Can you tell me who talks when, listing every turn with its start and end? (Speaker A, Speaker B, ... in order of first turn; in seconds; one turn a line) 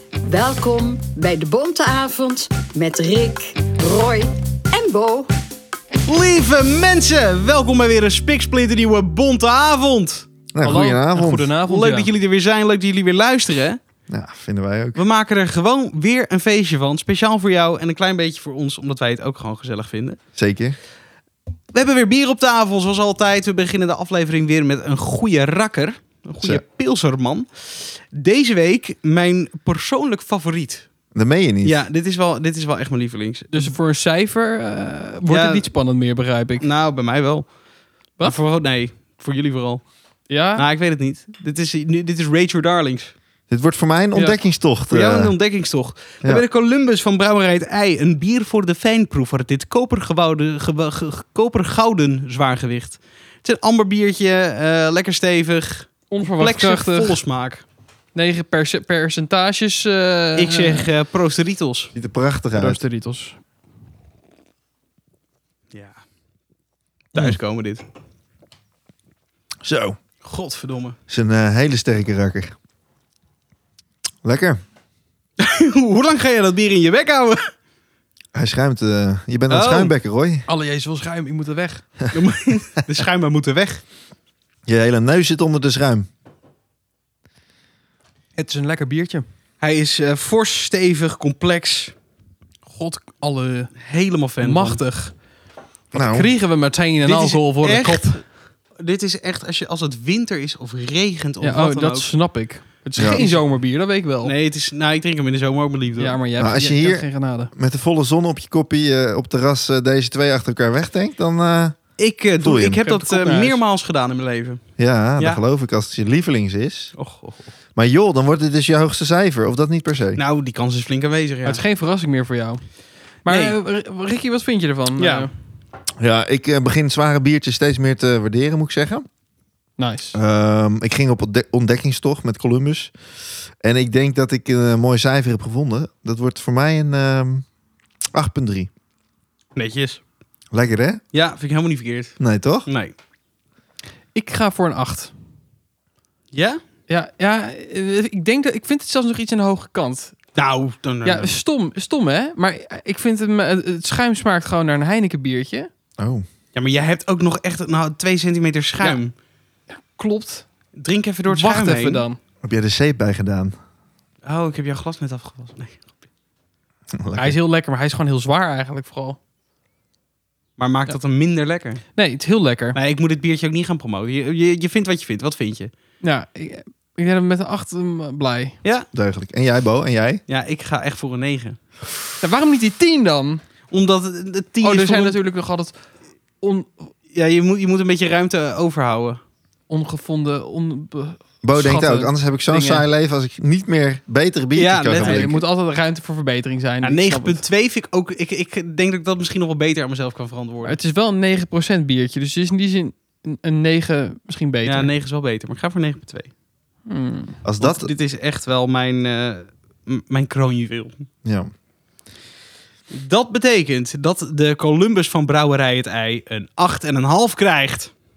Speaker A: 0.2-5.3
Speaker B: 6.0-10.2
Speaker C: 10.5-11.5
Speaker D: 10.6-12.1
Speaker B: 11.7-13.8
Speaker C: 14.1-15.0
Speaker B: 14.9-20.2
Speaker C: 20.4-20.8
Speaker B: 21.7-30.9
Speaker C: 31.1-31.8
Speaker B: 31.6-33.8
Speaker D: 33.5-36.6
Speaker B: 35.3-35.7
Speaker B: 36.6-37.5
Speaker B: 38.2-39.9
Speaker D: 40.3-40.7
Speaker B: 40.5-43.1
Speaker C: 43.5-45.3
Speaker B: 44.9-57.6
Speaker D: 56.1-57.2
Speaker D: 58.1-60.9
Speaker B: 60.4-61.9
Speaker C: 61.9-62.8
Speaker D: 62.5-63.4
Speaker B: 65.7-66.0
Speaker B: 67.1-67.8
Speaker C: 69.6-70.0
Speaker B: 70.2-71.0
Speaker C: 71.1-72.5
Speaker C: 74.2-74.6
Speaker B: 75.4-77.5
Speaker C: 78.3-80.5
Speaker B: 79.5-79.9
Speaker D: 80.5-81.8
Speaker B: 82.1-83.8
Speaker C: 84.7-86.1
Speaker D: 88.3-89.2
Speaker B: 89.6-91.9
Speaker D: 92.7-93.7
Speaker B: 93.8-94.8
Speaker D: 94.4-95.2
Speaker C: 95.9-96.3
Speaker D: 95.9-98.2
Speaker B: 97.0-102.1
Speaker D: 101.4-104.3
Speaker C: 103.0-103.2
Speaker B: 103.1-103.4
Speaker B: 104.2-106.2
Speaker D: 106.0-107.5
Speaker C: 106.4-111.8
Speaker B: 112.0-114.6
Speaker C: 112.4-112.8
Speaker D: 112.8-113.6
Speaker C: 114.8-116.9
Speaker B: 117.0-117.5
Speaker C: 117.8-120.2
Speaker B: 120.2-121.6
Speaker D: 121.5-122.6
Speaker D: 123.2-125.3
Speaker B: 123.3-123.5
Speaker B: 125.0-125.3
Speaker C: 126.0-129.1
Speaker D: 129.8-130.2
Speaker C: 130.1-132.9
Speaker C: 133.6-137.5
Speaker C: 138.1-138.7
Speaker B: 139.6-140.0
Speaker C: 140.5-141.0
Speaker B: 141.1-142.9
Speaker C: 142.2-142.7
Speaker D: 144.2-145.1
Speaker B: 146.3-146.6
Speaker D: 146.9-150.2
Speaker B: 150.3-151.3
Speaker D: 151.0-155.7
Speaker C: 156.0-156.2
Speaker B: 156.5-159.1
Speaker D: 159.7-160.5
Speaker B: 160.8-162.0
Speaker D: 161.3-162.2
Speaker C: 162.4-163.6
Speaker B: 164.2-165.9
Speaker C: 166.9-167.4
Speaker D: 167.2-169.2
Speaker B: 170.6-171.8
Speaker D: 171.9-172.8
Speaker B: 172.7-175.7
Speaker D: 176.0-178.6
Speaker C: 178.9-180.2
Speaker B: 180.3-181.6
Speaker D: 182.2-183.4
Speaker B: 183.7-185.2
Speaker D: 184.6-185.8
Speaker D: 186.4-186.9
Speaker B: 187.1-189.2
Speaker D: 189.7-192.1
Speaker C: 191.4-195.4
Speaker B: 192.5-192.8
Speaker B: 194.6-195.4
Speaker D: 195.0-197.4
Speaker B: 196.8-200.8
Speaker D: 200.6-204.9
Speaker B: 204.7-206.3
Speaker D: 206.9-207.4
Speaker C: 207.4-207.9
Speaker B: 207.6-211.1
Speaker C: 211.2-211.5
Speaker B: 212.9-217.9